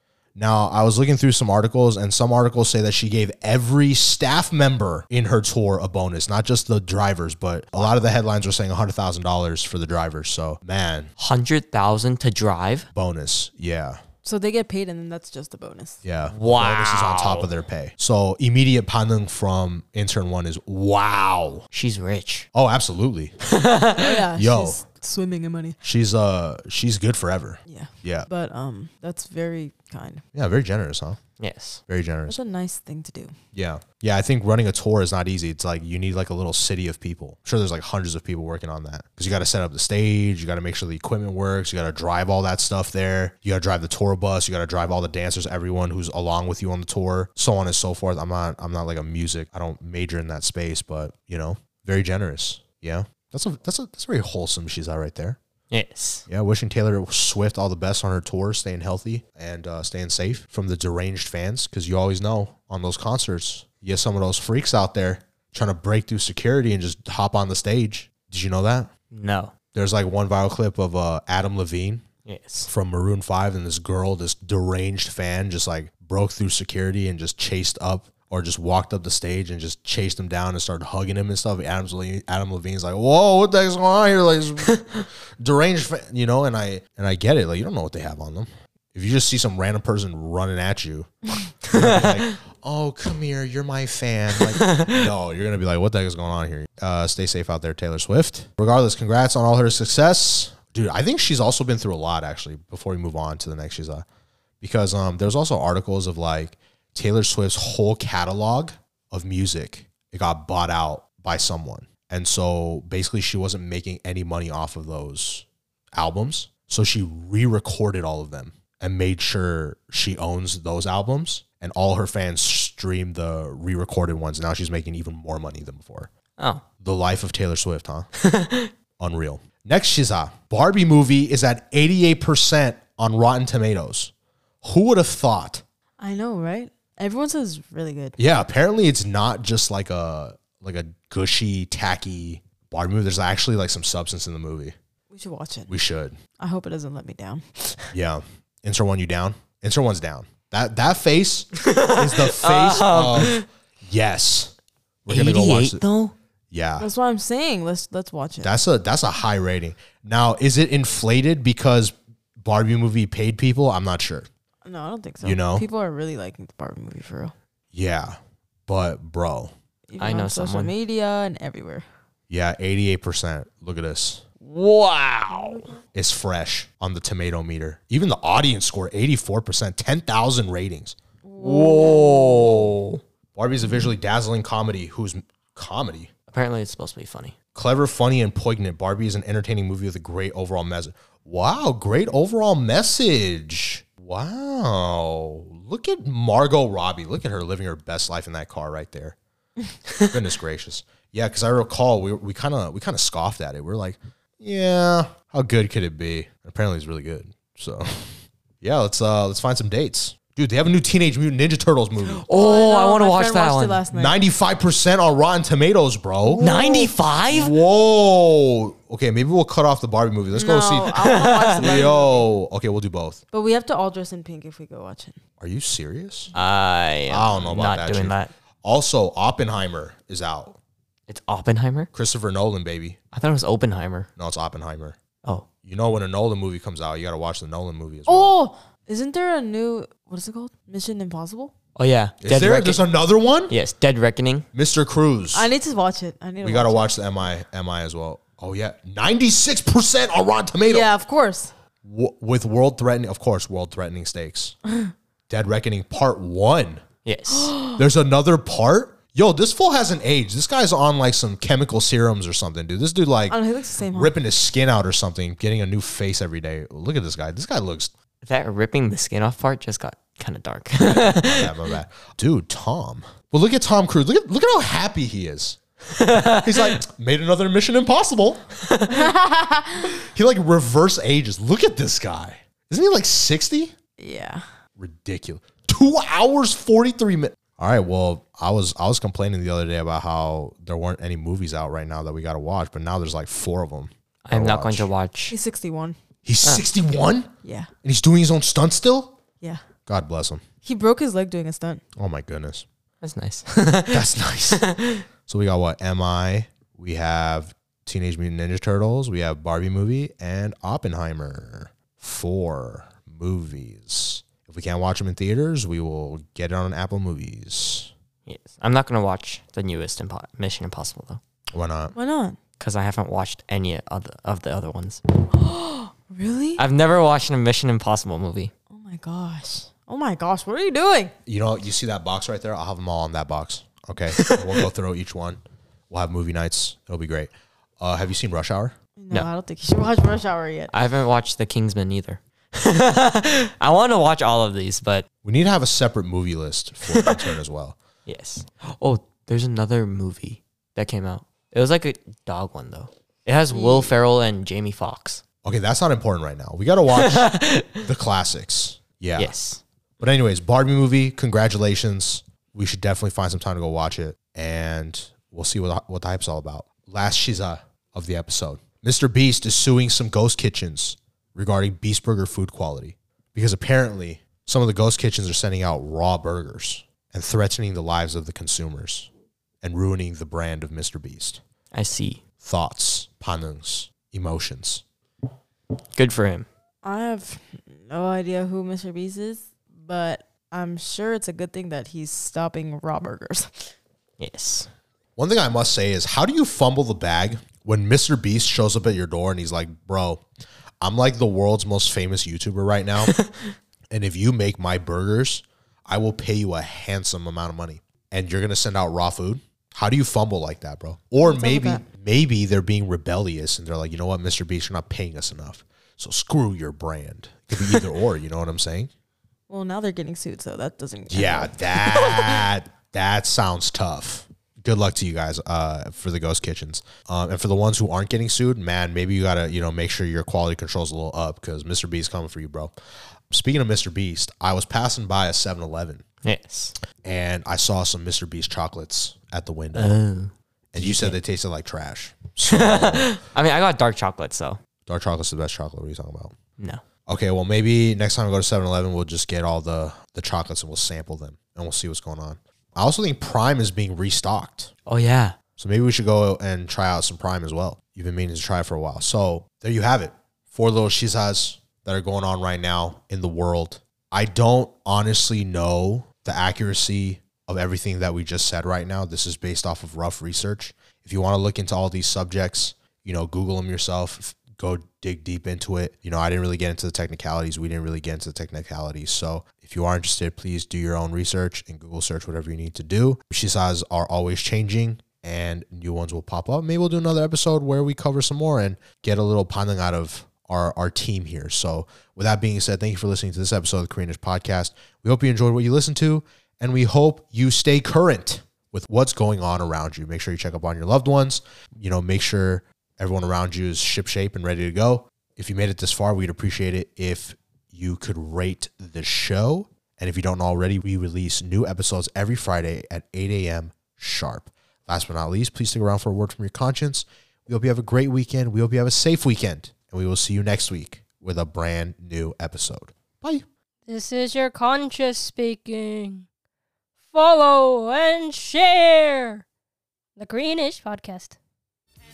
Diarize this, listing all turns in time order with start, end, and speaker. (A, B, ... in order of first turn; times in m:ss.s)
0:00.4-0:11.1 A
0:07.7-0:08.0 B
0:11.2-0:12.9 B
0:12.9-0:14.0 A
0:14.2-0:16.0 C
0:16.0-0:21.6 A
0:16.3-0:17.5 B
0:21.7-0:22.5 B
0:22.5-0:23.3 A
0:23.4-0:24.2 B
0:24.0-0:25.8 C
0:24.3-0:24.8 A
0:25.8-0:28.3 A
0:27.7-0:30.2 C
0:30.3-0:31.2 A
0:31.4-0:31.8 B
0:31.9-0:32.4 A
0:32.3-0:33.3 C
0:33.5-0:55.4 A
0:55.7-0:56.2 B
0:56.3-1:08.9 A
1:09.1-1:09.5 B
1:09.7-1:12.0 A
1:12.2-1:12.7 B
1:12.7-1:31.1 A
1:31.6-1:44.0 A
1:31.7-1:32.2 B
1:34.5-1:35.0 B
1:44.6-2:06.1 A
2:06.4-2:06.6 B
2:06.8-2:08.1 A
2:08.2-2:08.7 B
2:09.0-2:14.1 A
2:14.6-2:15.6 A
2:16.0-2:18.2 C
2:18.2-2:24.7 A
2:25.1-2:25.7 C
2:25.7-2:26.2 A
2:26.4-2:27.9 C
2:27.9-2:34.5 A
2:31.5-2:33.4 B
2:35.0-2:35.8 A
2:35.1-2:36.1 B
2:36.5-2:36.9 A
2:36.8-2:38.5 C
2:38.4-2:44.3 A
2:44.6-2:47.3 C
2:45.2-2:45.6 A
2:47.7-2:49.5 A
2:49.9-2:51.8 C
2:50.0-2:50.7 B
2:52.3-2:54.2 A
2:54.4-2:55.6 B
2:55.4-2:55.6 C
2:55.9-3:01.0 A
3:01.2-3:02.4 C
3:01.4-3:03.0 B
3:02.3-3:02.7 A
3:03.4-3:06.1 A
3:06.3-3:07.3 B
3:07.5-3:19.2 A
3:20.0-3:32.2 A
3:32.0-3:33.8 B
3:32.3-3:34.2 C
3:33.9-3:36.5 A
3:36.2-3:37.0 C
3:36.4-3:37.5 B
3:37.2-3:43.2 A
3:40.3-3:42.3 C
3:40.9-3:41.7 B
3:43.3-3:45.2 C
3:45.4-3:46.3 A
3:46.3-3:48.3 B
3:47.1-3:50.6 A
3:51.1-3:51.9 B
3:51.9-3:53.0 A
3:53.1-3:54.1 B
3:54.2-3:55.0 A
3:55.6-3:58.4 A
3:58.1-4:01.5 C
4:01.8-4:02.9 B
4:02.2-4:03.6 A
4:03.5-4:04.5 B
4:04.5-4:05.5 A
4:05.3-4:06.9 C
4:06.4-4:10.9 A
4:10.6-4:11.5 C
4:11.8-4:14.6 A
4:15.3-4:16.8 A
4:17.0-4:17.6 B
4:17.4-4:17.8 C
4:17.8-4:23.4 A
4:23.3-4:24.2 C
4:23.9-4:27.9 A
4:28.2-4:31.6 B
4:30.8-4:38.4 A
4:35.9-4:36.8 B
4:38.7-4:39.1 B
4:38.9-4:39.9 C
4:39.8-4:43.7 A
4:44.0-4:44.4 C
4:44.8-4:54.9 A
4:54.2-4:55.4 B
4:55.3-4:56.0 C
4:56.2-4:57.3 A
4:57.4-4:57.7 C
4:57.8-4:59.2 A
4:59.8-5:00.4 A
5:00.6-5:01.8 C
5:02.0-5:02.6 A
5:03.0-5:05.0 B
5:03.9-5:04.6 A
5:05.3-5:17.9 A
5:18.2-5:21.2 B
5:21.5-5:21.9 A
5:21.9-5:22.4 C
5:22.6-5:25.0 B
5:25.3-5:26.6 C
5:26.6-5:28.5 B
5:28.7-5:31.1 C
5:31.2-5:38.7 A
5:34.2-5:34.6 B
5:39.0-5:40.7 C
5:40.7-5:45.0 B
5:45.2-5:47.8 A
5:46.9-5:47.4 B
5:48.0-5:55.2 B
5:53.5-5:53.9 C
5:55.4-5:59.3 A
5:56.9-5:57.8 B
5:59.2-5:59.6 B
6:00.0-6:19.1 A
6:19.6-6:21.4 A
6:21.7-6:22.2 B
6:22.4-6:24.8 A
6:25.9-6:26.5 B
6:26.8-6:33.7 C
6:34.2-6:34.7 B
6:35.2-6:40.2 A
6:40.8-6:43.1 A
6:43.1-6:43.5 B
6:43.9-6:58.9 A
6:51.2-6:51.8 C
6:59.5-7:02.4 C
7:01.1-7:12.7 A
7:13.3-7:16.0 A
7:16.2-7:16.8 B
7:17.0-7:20.0 A
7:19.7-7:21.2 B
7:20.7-7:23.1 A
7:22.4-7:24.6 B
7:24.9-7:26.3 A
7:26.6-7:26.8 B
7:27.1-7:34.7 A
7:34.8-7:35.4 B
7:35.6-8:43.4 A
8:43.9-8:46.3 D
8:47.1-8:49.4 D
8:50.2-8:51.4 D